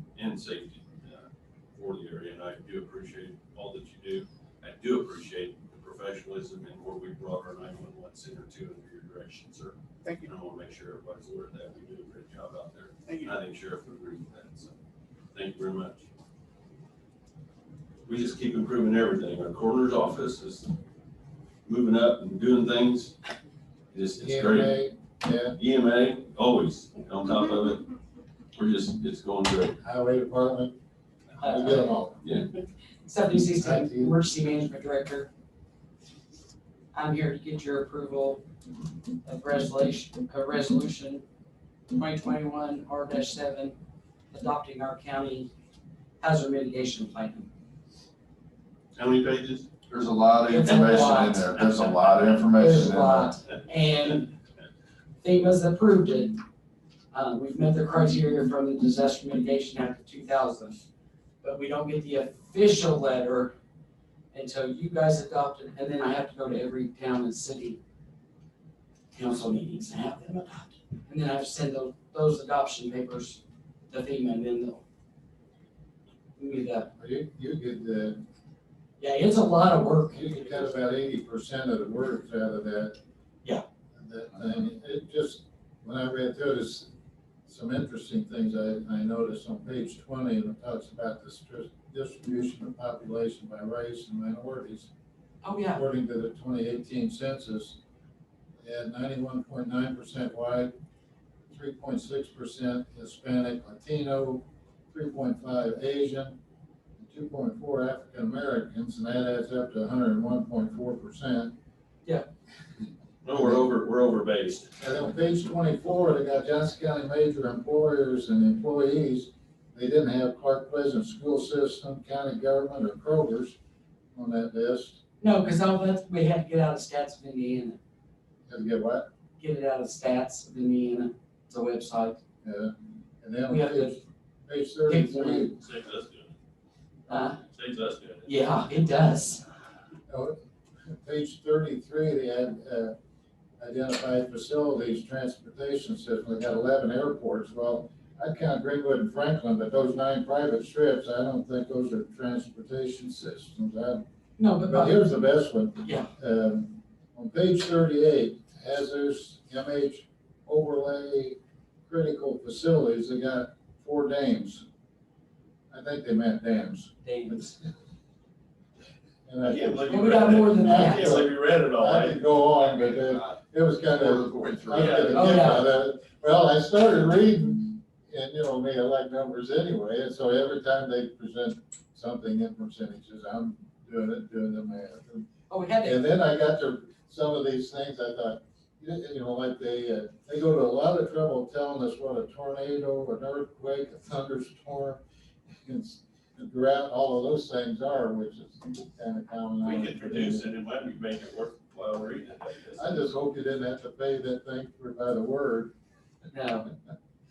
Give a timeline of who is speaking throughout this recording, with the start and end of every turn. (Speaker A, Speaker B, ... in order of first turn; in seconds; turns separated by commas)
Speaker A: 0.2-14.7, Speaker A: 15.3-16.1, Speaker A: 18.1-20.7, Speaker A: 21.7-23.1, Speaker A: 23.9-24.8, Speaker B: 24.2-25.6, Speaker A: 25.6-27.9, Speaker A: 28.6-29.8, Speaker B: 29.8-30.8, Speaker B: 31.4-32.2, Speaker C: 31.4-31.9, Speaker C: 33.0-35.3, Speaker B: 33.6-34.1, Speaker C: 36.9-38.4, Speaker C: 39.2-41.2, Speaker C: 41.9-43.8, Speaker C: 44.3-45.5, Speaker C: 46.2-47.5, Speaker A: 49.0-49.7, Speaker D: 49.9-53.3, Speaker C: 50.5-51.5, Speaker C: 52.6-54.3, Speaker C: 55.2-56.4, Speaker C: 57.1-60.8, Speaker C: 61.4-63.5, Speaker C: 64.3-67.8, Speaker C: 69.1-74.8, Speaker C: 76.4-76.9, Speaker B: 77.0-78.2, Speaker C: 79.0-80.7, Speaker B: 80.1-83.0, Speaker B: 84.0-86.9, Speaker B: 87.5-94.9, Speaker C: 95.4-95.8, Speaker B: 95.7-97.8, Speaker B: 98.6-100.7, Speaker B: 101.5-106.4, Speaker B: 107.0-111.5, Speaker A: 113.2-114.7, Speaker B: 113.4-113.6, Speaker B: 114.8-123.6, Speaker B: 124.1-125.0, Speaker C: 125.2-127.8, Speaker B: 128.5-129.1, Speaker C: 129.4-132.2, Speaker B: 132.4-135.6, Speaker C: 133.5-134.0, Speaker C: 134.9-135.5, Speaker A: 135.6-136.3, Speaker C: 137.1-137.4, Speaker A: 137.4-138.3, Speaker C: 138.2-139.5, Speaker B: 140.1-142.9, Speaker B: 143.6-154.0, Speaker C: 154.4-155.0, Speaker B: 154.7-164.6, Speaker C: 155.8-156.1, Speaker B: 165.7-167.6, Speaker C: 167.0-167.5, Speaker B: 169.2-185.3, Speaker A: 169.4-172.2, Speaker C: 169.9-171.2, Speaker D: 173.9-175.4, Speaker A: 174.7-175.3, Speaker C: 175.1-175.7, Speaker C: 185.5-186.0, Speaker B: 185.8-195.0, Speaker B: 195.6-200.4, Speaker A: 199.6-203.0, Speaker B: 202.8-205.7, Speaker C: 206.3-206.7